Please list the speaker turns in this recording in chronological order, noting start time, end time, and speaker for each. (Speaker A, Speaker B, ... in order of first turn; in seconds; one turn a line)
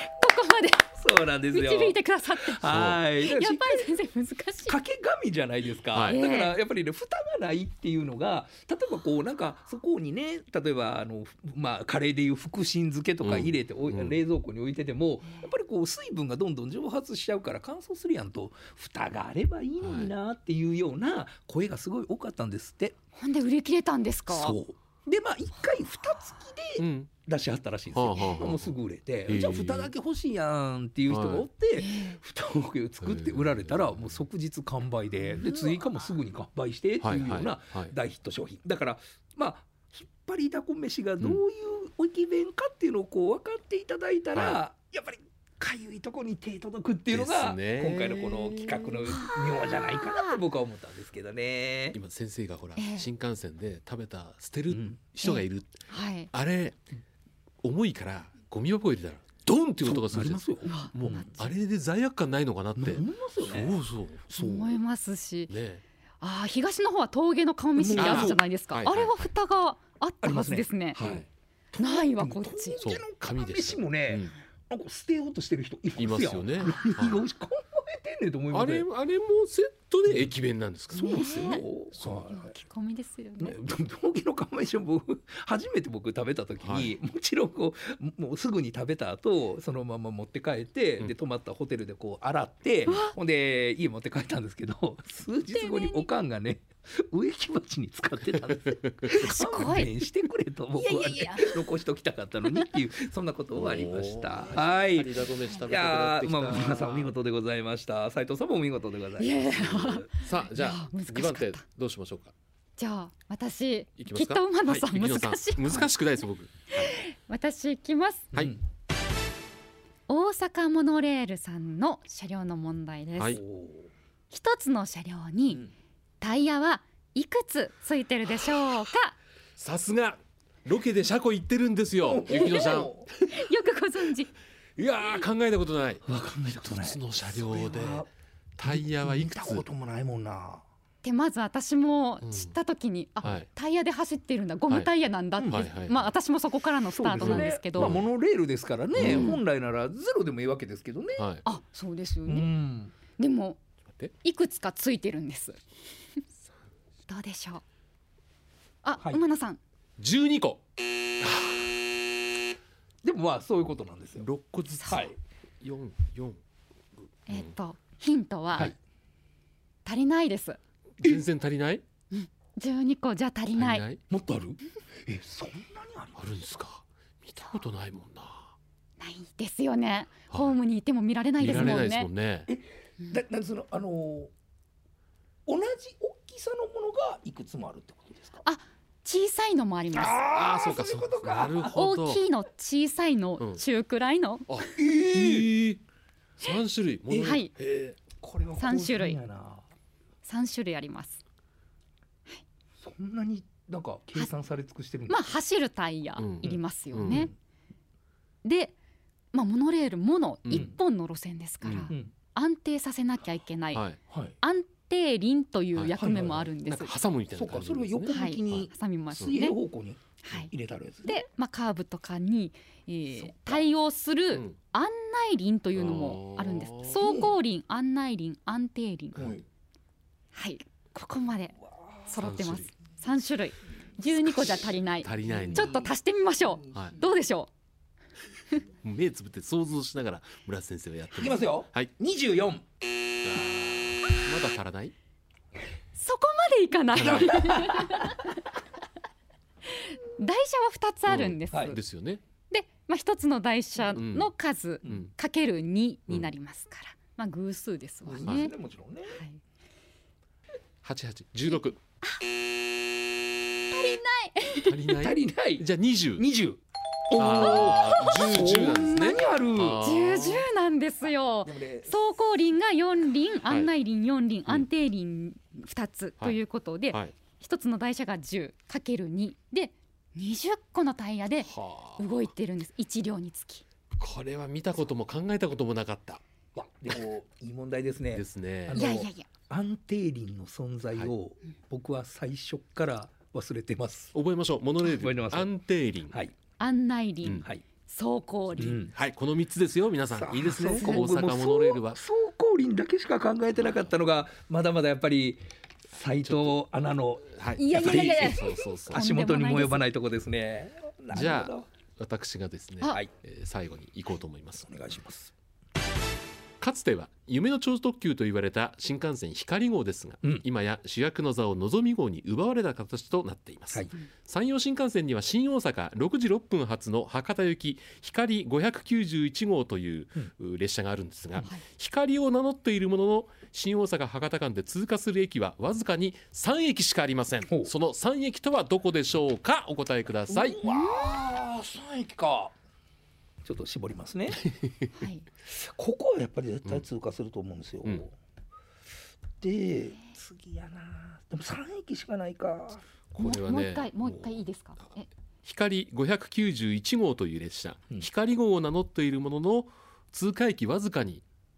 Speaker A: 0.2-0.9
Speaker B: 0.9-4.0
Speaker A: 1.5-4.8
Speaker C: 2.6-3.0
Speaker B: 4.7-22.9
Speaker C: 5.9-6.2
Speaker A: 6.0-6.6
Speaker C: 13.2-14.2
Speaker C: 19.8-20.1
Speaker A: 23.1-24.6
Speaker B: 24.3-52.0
Speaker C: 26.8-27.1
Speaker C: 27.9-28.7
Speaker C: 29.2-29.9
Speaker C: 31.1-31.5
Speaker A: 31.7-32.2
Speaker C: 33.0-34.1
Speaker A: 35.2-35.8
Speaker C: 37.0-37.9
Speaker C: 44.3-44.6
Speaker C: 47.1-49.1
Speaker A: 49.0-50.4
Speaker C: 51.9-56.8
Speaker A: 52.8-53.0
Speaker B: 54.7-55.0
Speaker A: 55.2-56.3
Speaker C: 57.6-64.2
Speaker B: 59.8-61.5
Speaker A: 60.6-61.5
Speaker B: 62.8-64.8
Speaker A: 64.4-65.5
Speaker C: 65.5-65.8
Speaker A: 66.2-71.0
Speaker B: 67.8-68.4
Speaker C: 67.9-69.1
Speaker B: 70.2-78.9
Speaker C: 71.0-71.2
Speaker A: 71.8-72.8
Speaker C: 72.8-74.3
Speaker C: 76.0-77.3
Speaker C: 78.5-82.3
Speaker B: 80.1-80.3
Speaker B: 80.9-82.5
Speaker A: 81.0-81.7
Speaker A: 82.3-83.6
Speaker B: 83.4-110.1
Speaker C: 86.6-86.9
Speaker A: 92.9-93.1
Speaker A: 95.5-96.1
Speaker C: 98.5-99.1
Speaker A: 99.1-100.0
Speaker A: 100.7-101.7
Speaker A: 102.4-102.7
Speaker C: 103.5-107.1
Speaker A: 109.2-111.6
Speaker C: 110.2-112.3
Speaker A: 112.8-115.9
Speaker C: 114.0-117.0
Speaker A: 116.7-118.2
Speaker A: 120.1-123.4
Speaker C: 123.2-123.4
Speaker B: 123.3-123.9
Speaker A: 124.3-125.7
Speaker A: 126.2-129.1
Speaker C: 129.6-133.4
Speaker B: 132.0-133.1
Speaker A: 132.3-132.7
Speaker A: 133.2-134.3
Speaker C: 134.8-136.0
Speaker B: 136.1-138.1
Speaker C: 136.6-138.1
Speaker C: 138.6-139.6
Speaker B: 138.6-140.6
Speaker A: 141.0-148.0
Speaker C: 142.2-142.5
Speaker C: 143.2-143.5
Speaker B: 145.4-145.7
Speaker C: 145.4-146.1
Speaker B: 146.9-151.3
Speaker C: 147.2-148.0
Speaker C: 148.9-149.4
Speaker A: 149.0-149.4
Speaker C: 151.2-151.4
Speaker A: 151.4-152.5
Speaker B: 152.2-152.9
Speaker A: 153.2-153.6
Speaker C: 153.8-154.1
Speaker A: 154.2-155.6
Speaker A: 157.1-157.6
Speaker A: 158.8-159.6
Speaker C: 160.0-160.6
Speaker C: 161.2-161.6
Speaker B: 163.0-164.3
Speaker C: 164.2-166.4
Speaker B: 164.9-165.1
Speaker A: 167.3-168.7
Speaker A: 169.8-170.6
Speaker C: 171.0-171.8
Speaker A: 172.1-173.8
Speaker C: 173.5-174.0
Speaker B: 174.1-176.4
Speaker C: 176.2-178.5
Speaker A: 179.0-182.1
Speaker C: 181.4-182.5
Speaker B: 181.5-181.8
Speaker B: 182.5-184.3
Speaker B: 185.4-188.4
Speaker A: 188.4-190.2
Speaker B: 189.9-191.8
Speaker C: 190.3-192.2
Speaker A: 191.6-194.7
Speaker C: 194.5-195.8
Speaker B: 194.8-195.5
Speaker C: 196.4-198.0
Speaker B: 197.1-197.4
Speaker A: 197.2-197.5
Speaker B: 198.2-199.7
Speaker A: 198.6-199.2
Speaker A: 200.2-201.2
Speaker B: 202.8-205.2
Speaker A: 205.1-207.3
Speaker C: 206.2-207.3
Speaker B: 206.4-207.3
Speaker A: 208.4-208.7
Speaker A: 209.3-213.9
Speaker C: 210.4-210.7
Speaker B: 210.5-210.8
Speaker C: 211.6-211.9
Speaker C: 213.7-214.0
Speaker B: 214.1-214.3
Speaker A: 214.4-216.9
Speaker B: 215.9-221.2
Speaker C: 216.6-218.7
Speaker A: 218.1-219.6
Speaker A: 220.2-220.5
Speaker A: 221.0-229.4
Speaker B: 223.2-223.7
Speaker C: 225.8-227.0
Speaker B: 226.8-227.3
Speaker B: 229.1-229.4
Speaker A: 230.3-237.5
Speaker B: 231.6-232.1
Speaker C: 232.2-232.7
Speaker C: 234.2-235.8
Speaker B: 235.2-237.1
Speaker C: 238.8-241.9
Speaker B: 241.1-242.6
Speaker C: 243.2-244.9
Speaker A: 245.9-248.3
Speaker C: 246.9-247.7
Speaker B: 247.0-248.2
Speaker A: 249.7-251.8
Speaker C: 251.1-252.2
Speaker A: 252.5-258.5
Speaker C: 253.8-254.3
Speaker C: 254.8-255.1
Speaker B: 258.0-259.2
Speaker C: 258.2-258.5
Speaker A: 259.1-259.4
Speaker C: 260.8-261.8
Speaker A: 261.5-262.2
Speaker A: 263.7-264.9
Speaker C: 264.6-266.2
Speaker B: 264.9-269.8
Speaker C: 267.1-270.5
Speaker A: 269.8-283.6
Speaker B: 271.4-272.0
Speaker C: 281.4-282.1
Speaker C: 284.0-286.2
Speaker B: 286.5-294.1
Speaker C: 288.1-288.9
Speaker A: 288.7-289.3
Speaker C: 294.1-296.1
Speaker B: 294.8-295.5
Speaker B: 296.1-296.3
Speaker A: 296.6-298.9
Speaker B: 297.4-297.6
Speaker B: 298.6-298.9
Speaker C: 298.9-302.0
Speaker B: 300.1-311.7
Speaker A: 300.7-301.0
Speaker C: 306.2-306.6
Speaker C: 307.3-309.0
Speaker A: 307.6-309.9
Speaker C: 311.1-314.6
Speaker B: 314.6-315.3
Speaker C: 316.6-340.6
Speaker B: 340.3-342.5
Speaker A: 340.6-341.2
Speaker B: 343.4-344.4
Speaker C: 344.5-344.9
Speaker A: 344.9-345.3
Speaker B: 345.4-348.1
Speaker B: 349.4-352.8
Speaker C: 353.1-354.4
Speaker A: 353.2-355.1
Speaker C: 355.4-361.2